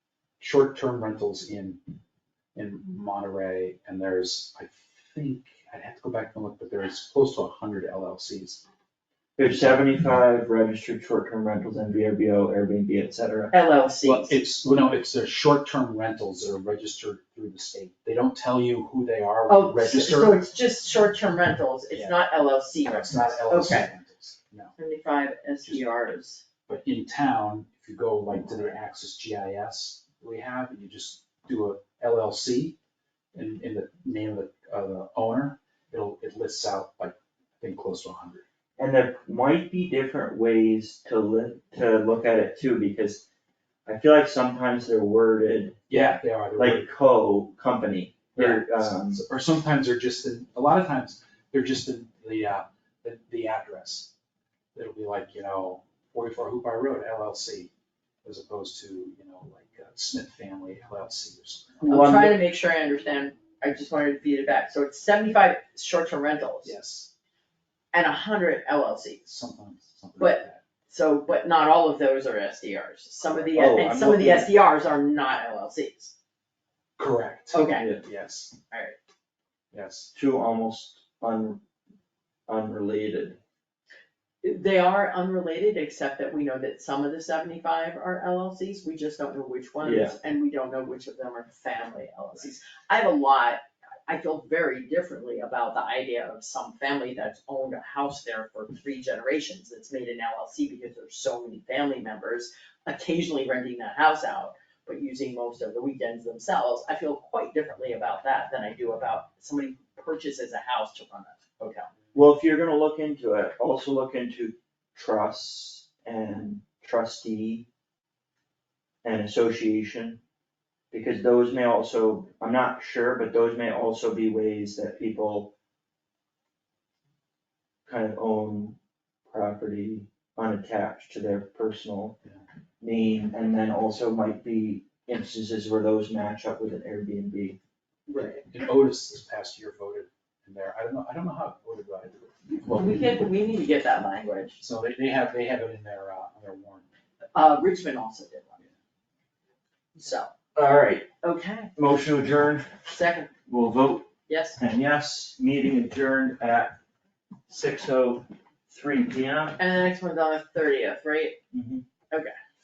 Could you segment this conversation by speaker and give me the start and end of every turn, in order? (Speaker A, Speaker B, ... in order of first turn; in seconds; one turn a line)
Speaker A: 0.4-1.8
Speaker A: 2.5-8.6
Speaker B: 9.4-13.5
Speaker C: 13.5-14.4
Speaker A: 14.0-20.4
Speaker C: 19.5-23.9
Speaker A: 22.8-24.7
Speaker C: 24.8-26.4
Speaker A: 26.7-32.8
Speaker A: 33.3-38.4
Speaker B: 38.8-43.2
Speaker B: 43.9-49.2
Speaker A: 45.9-46.9
Speaker A: 48.3-54.1
Speaker A: 54.7-57.7
Speaker A: 58.2-62.1
Speaker C: 61.8-66.7
Speaker B: 61.9-62.4
Speaker A: 66.6-67.1
Speaker C: 67.9-69.2
Speaker A: 69.2-70.6
Speaker C: 70.2-76.1
Speaker B: 73.4-74.5
Speaker A: 77.0-78.5
Speaker C: 77.5-77.9
Speaker C: 78.7-79.0
Speaker A: 79.7-80.1
Speaker B: 80.1-81.6
Speaker B: 82.5-83.4
Speaker C: 84.4-111.9
Speaker B: 89.8-90.1
Speaker B: 112.1-117.7
Speaker B: 119.0-120.2
Speaker B: 120.9-125.5
Speaker B: 127.8-128.8
Speaker B: 129.3-132.2
Speaker B: 132.8-137.6
Speaker C: 138.1-138.4
Speaker A: 138.1-142.9
Speaker C: 142.6-144.6
Speaker A: 144.6-146.9
Speaker C: 147.3-148.6
Speaker C: 150.0-150.3
Speaker B: 150.5-151.1
Speaker C: 151.2-151.7
Speaker B: 151.8-152.7
Speaker C: 152.9-153.3
Speaker B: 153.5-156.8
Speaker C: 154.3-154.6
Speaker B: 157.5-159.6
Speaker C: 159.6-161.4
Speaker B: 161.5-161.8